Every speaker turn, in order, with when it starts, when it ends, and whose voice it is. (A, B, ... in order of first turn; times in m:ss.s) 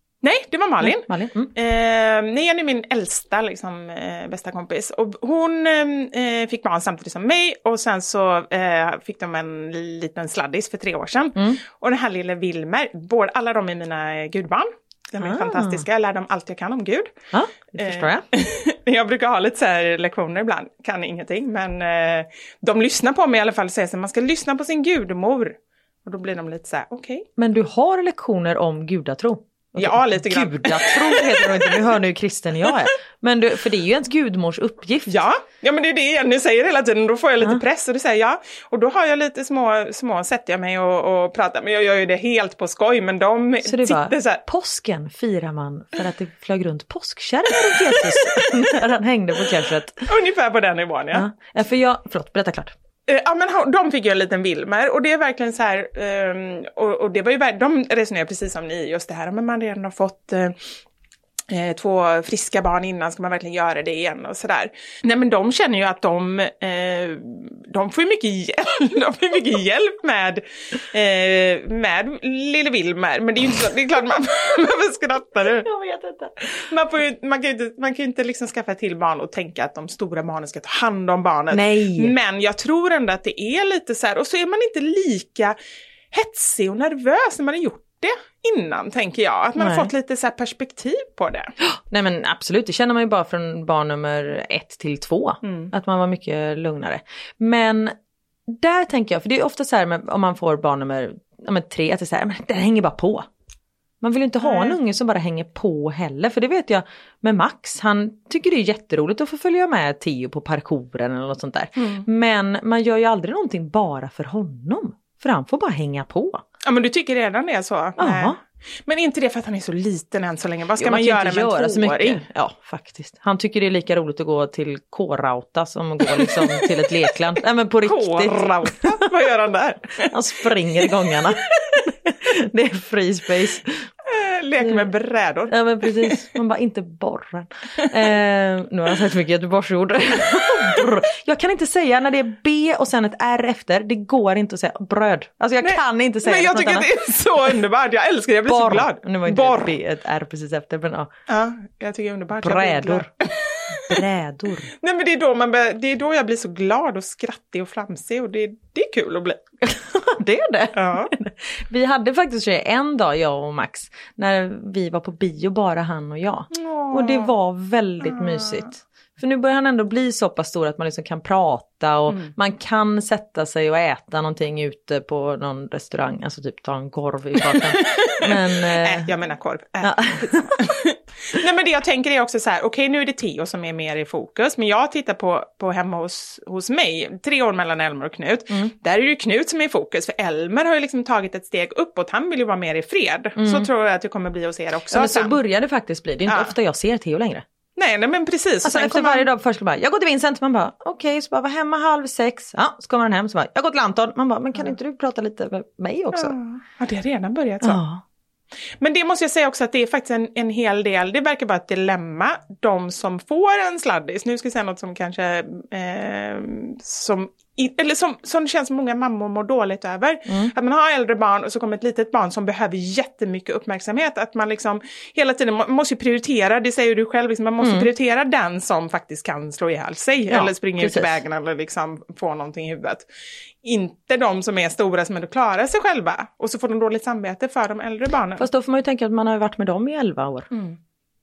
0:00.2-0:17.1 A
0:00.8-0:01.5 B
0:15.2-0:15.8 B
0:17.3-0:18.2 B
0:17.8-0:27.2 A
0:27.4-0:35.2 B
0:29.8-0:31.8 A
0:35.1-0:44.4 A
0:43.6-0:50.1 B
0:50.1-0:51.3 A
0:51.1-0:52.7 B
0:53.1-1:00.6 A
1:01.5-1:15.7 A
1:15.6-1:16.6 B
1:16.6-1:25.6 A
1:21.5-1:22.1 B
1:26.1-1:31.5 A
1:29.6-1:29.9 B
1:31.6-1:37.9 B
1:35.4-1:35.7 A
1:38.5-1:43.3 B
1:44.0-1:56.4 B
1:44.4-1:44.8 A
1:51.8-1:52.1 A
1:56.6-2:02.2 A
1:58.0-1:58.4 B
2:00.8-2:08.9 B
2:06.2-2:06.7 A
2:07.8-2:10.1 A
2:10.0-2:13.9 B
2:14.1-2:16.2 A
2:14.6-2:14.8 B
2:15.5-2:26.9 B
2:25.6-2:29.7 A
2:28.5-2:31.1 B
2:31.3-2:34.0 A
2:32.4-2:33.1 B
2:33.9-2:34.7 B
2:34.8-2:39.4 A
2:39.6-2:59.1 B
2:40.7-2:41.1 A
2:46.5-2:47.3 A
2:48.0-2:48.6 A
2:52.1-2:52.3 A
2:57.5-3:15.4 A
2:59.8-3:00.6 B
3:13.4-3:13.7 B
3:14.9-3:17.4 B
3:16.3-3:16.5 A
3:17.8-3:19.3 A
3:18.6-3:26.3 B
3:26.1-3:27.8 A
3:27.6-3:28.0 B
3:28.8-3:53.0 A
3:40.3-3:40.5 B
3:47.6-3:47.9 B
3:50.3-3:51.1 B
3:53.6-3:58.4 A
3:58.4-4:00.5 B
4:00.5-4:00.8 A